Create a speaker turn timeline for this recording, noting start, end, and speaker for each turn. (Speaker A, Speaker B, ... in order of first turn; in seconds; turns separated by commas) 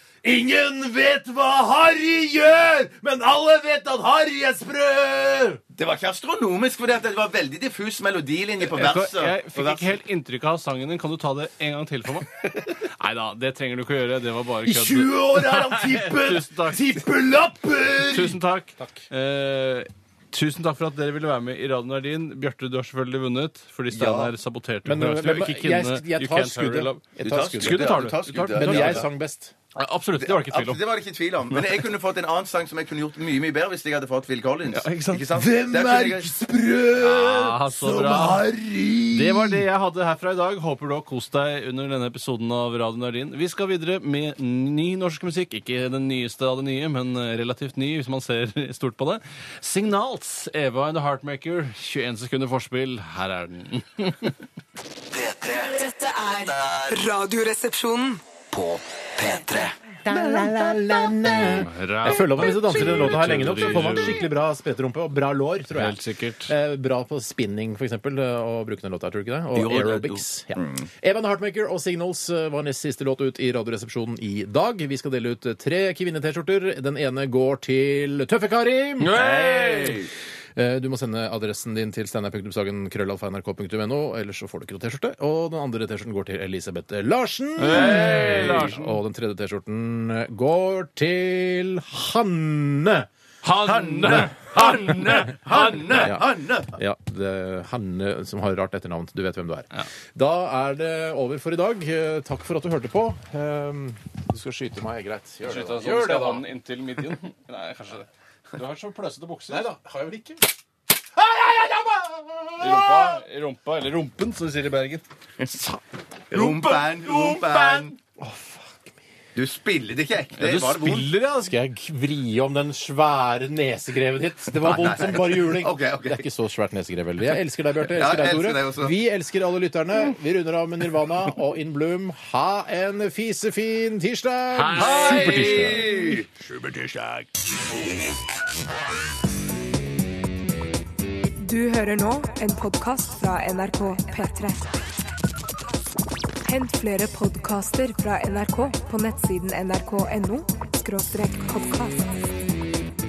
Speaker A: 0.2-5.6, Speaker B: 5.7-9.9, Speaker C: 8.6-16.9, Speaker A: 14.6-19.1, Speaker C: 18.1-29.1, Speaker B: 23.9-24.3, Speaker A: 24.9-29.5, Speaker B: 27.2-29.1, Speaker C: 29.7-30.8, Speaker B: 30.2-36.3, Speaker C: 31.5-31.9, Speaker C: 34.7-35.2, Speaker A: 35.3-39.6, Speaker C: 37.0-38.4, Speaker C: 39.1-54.3, Speaker D: 55.1-57.0, Speaker E: 55.7-58.2, Speaker D: 58.5-59.8, Speaker A: 60.0-79.9, Speaker B: 60.1-60.5, Speaker C: 61.5-64.2, Speaker C: 65.7-66.5, Speaker B: 69.5-70.8, Speaker B: 79.0-80.1, Speaker C: 79.1-79.9, Speaker A: 80.5-93.1, Speaker C: 87.6-89.0, Speaker B: 87.8-88.5, Speaker C: 93.4-96.1, Speaker B: 93.6-96.7, Speaker A: 95.9-106.4, Speaker C: 105.4-109.7, Speaker A: 109.5-110.4, Speaker A: 111.1-113.2, Speaker C: 112.6-115.0, Speaker B: 116.3-117.9, Speaker C: 116.3-117.8, Speaker A: 116.4-119.0, Speaker B: 119.3-121.1, Speaker C: 120.4-121.6, Speaker A: 121.4-135.9, Speaker B: 124.6-126.2, Speaker B: 127.9-128.9, Speaker C: 134.5-135.9, Speaker B: 134.7-136.3, Speaker E: 141.4-144.7, Speaker E: 146.4-152.2